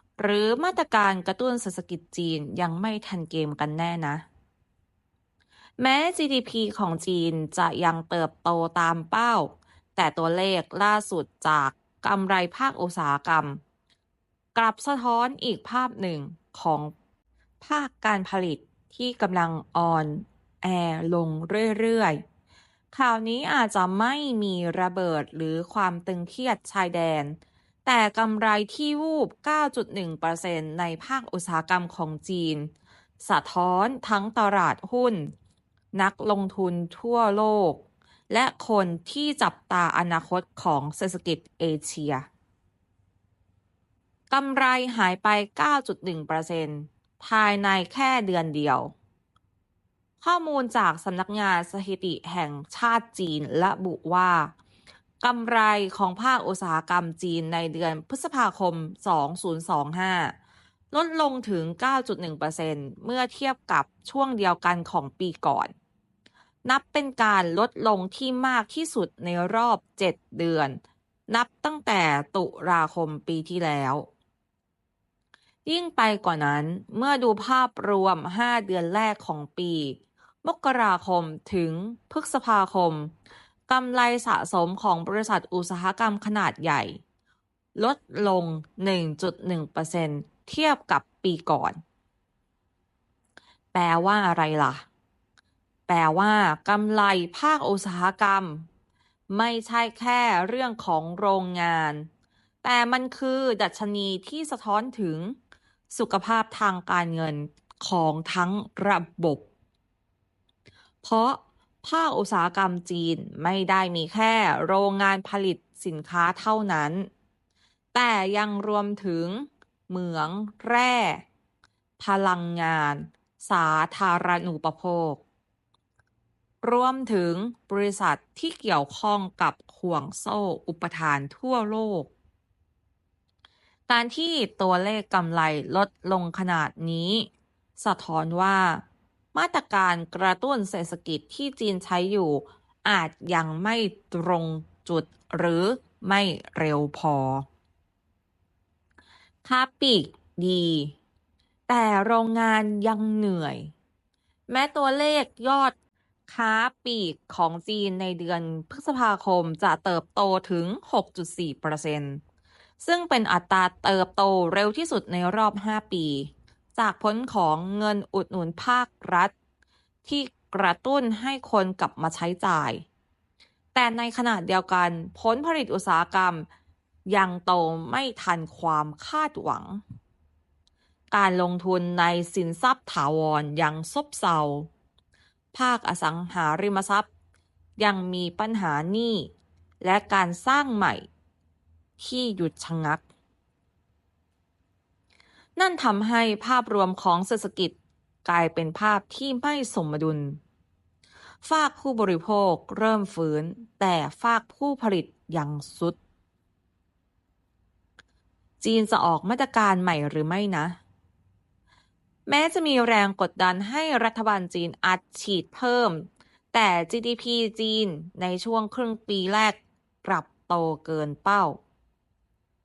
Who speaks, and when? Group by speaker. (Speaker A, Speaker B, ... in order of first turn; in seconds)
Speaker A: 0.2-4.2, 5.8-13.6, 14.5-16.9, 17.6-22.2, 22.9-32.7, 33.2-35.3, 36.0-42.2, 44.3-48.9, 50.2-54.5, 55.2-60.4, 60.9-65.7, 66.6-74.1, 75.7-83.1, 83.7-87.0, 87.8-91.8, 93.7-94.8, 95.9-98.7, 99.3-102.1, 102.6-105.3, 105.9-109.4, 111.0-117.1, 117.9-121.2, 122.0-125.2, 126.6-132.1, 133.9-137.3, 137.8-138.8, 139.3-147.4, 149.4-150.9, 151.7-153.7, 154.5-155.7, 156.3-162.2, 162.8-169.3, 170.0-172.8, 173.7-176.5, 177.1-179.8, 181.1-184.7, 185.5-187.1, 187.8-189.3, 189.8-191.1, 192.0-193.0, 195.6-200.4, 201.4-206.0, 208.6-210.8, 212.3-221.6